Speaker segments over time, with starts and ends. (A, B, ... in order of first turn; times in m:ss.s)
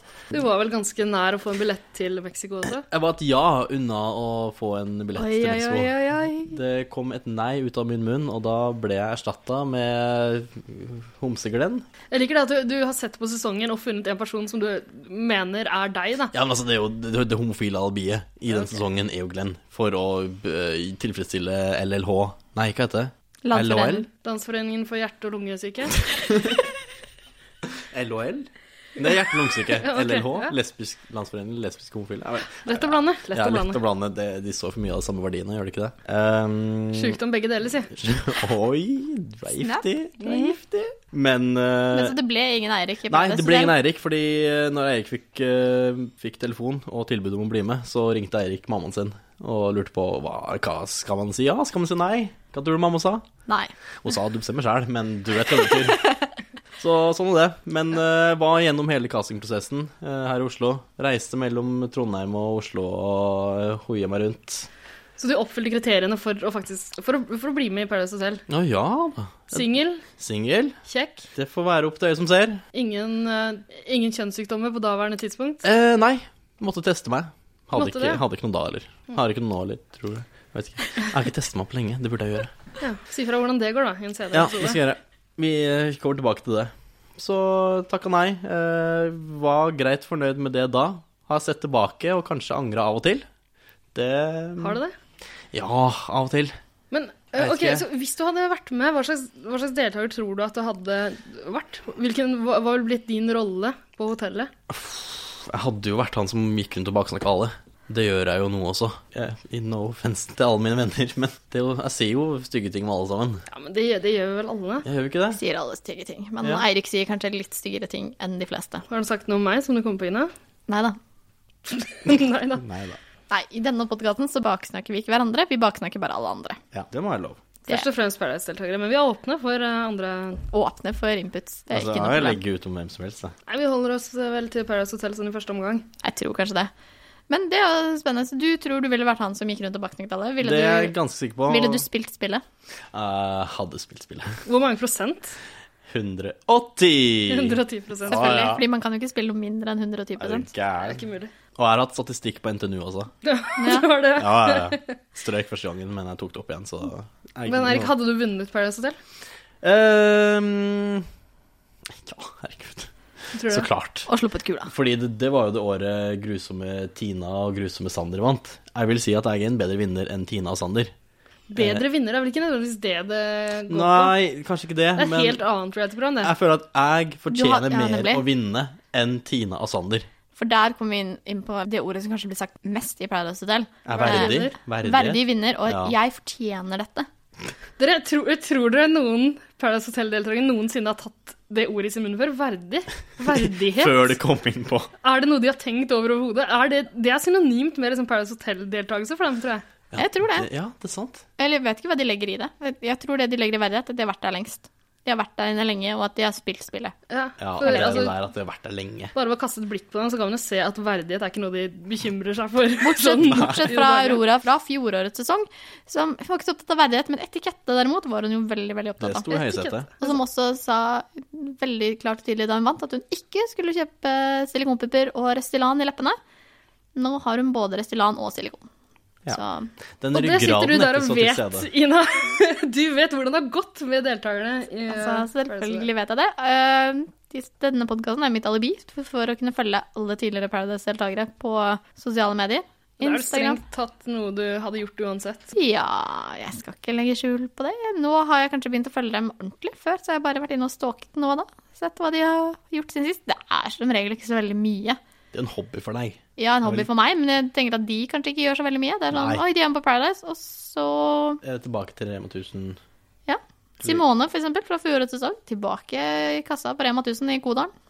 0:00.3-0:02.8 A
0:02.7-0:11.9 B
0:05.2-0:06.6 C
0:12.1-0:16.3 A
0:16.3-0:24.1 B
0:23.4-0:24.1 C
0:24.2-0:26.1 A
0:27.9-0:37.2 B
0:29.8-0:30.5 A
0:32.6-0:33.8 A
0:36.9-0:37.9 A
0:38.0-0:42.2 B
0:39.6-0:40.6 C
0:40.2-0:40.5 A
0:41.9-0:43.8 C
0:43.1-0:53.2 B
0:54.0-0:56.1 B
0:56.8-1:04.7 B
1:05.2-1:08.4 A
1:08.5-1:10.8 B
1:09.5-1:10.0 A
1:10.9-1:11.3 A
1:11.3-1:12.6 B
1:12.7-1:15.6 A
1:15.6-1:22.5 B
1:17.8-1:18.2 A
1:22.8-1:24.8 A
1:24.3-1:33.3 B
1:33.9-1:34.8 B
1:34.6-1:34.9 A
1:35.5-1:36.6 B
1:36.9-1:44.5 A
1:37.4-1:37.9 B
1:44.7-1:53.4 B
1:53.5-1:54.9 A
1:54.8-1:55.4 B
1:55.3-1:58.8 C
1:58.9-2:00.3 A
2:00.7-2:01.0 C
2:01.7-2:02.6 A
2:02.6-2:03.0 B
2:03.3-2:06.6 C
2:06.7-2:07.4 B
2:07.7-2:10.4 A
2:10.5-2:12.4 C
2:11.7-2:13.4 B
2:13.5-2:15.9 A
2:16.0-2:16.7 C
2:17.3-2:20.9 C
2:20.4-2:21.9 B
2:21.5-2:22.4 C
2:22.9-2:24.4 B
2:24.5-2:25.4 A
2:25.9-2:28.6 B
2:27.3-2:28.5 A
2:28.1-2:30.5 C
2:30.2-2:31.0 B
2:30.8-2:31.3 A
2:31.6-2:33.1 B
2:33.2-2:34.9 A
2:33.6-2:33.9 C
2:34.2-2:37.9 B
2:37.5-2:39.0 A
2:39.6-2:41.1 B
2:41.9-2:42.9 B
2:43.4-2:43.7 A
2:43.5-2:44.1 B
2:44.1-2:44.7 C
2:44.7-2:50.9 B
2:51.5-2:54.2 A
2:51.6-2:51.8 B
2:53.7-2:55.4 B
2:55.0-2:56.3 A
2:56.2-3:00.1 B
2:57.3-2:58.2 C
3:00.4-3:07.1 C
3:03.8-3:06.0 B
3:03.9-3:04.6 A
3:07.8-3:14.2 A
3:13.3-3:14.9 B
3:15.0-3:19.6 A
3:19.9-3:21.2 B
3:20.0-3:20.5 C
3:21.4-3:27.0 C
3:27.1-3:28.2 A
3:27.4-3:29.1 B
3:29.2-3:34.2 A
3:32.8-3:46.2 C
3:33.2-3:33.6 B
3:39.0-3:39.9 B
3:47.0-3:48.7 C
3:49.3-3:49.7 C
3:50.0-3:51.7 B
3:50.1-3:55.9 A
3:54.9-4:03.6 C
4:03.0-4:05.5 A
4:05.6-4:15.0 C
4:15.3-4:16.9 B
4:16.4-4:21.4 C
4:19.1-4:19.4 B
4:21.4-4:22.8 B
4:23.3-4:27.7 C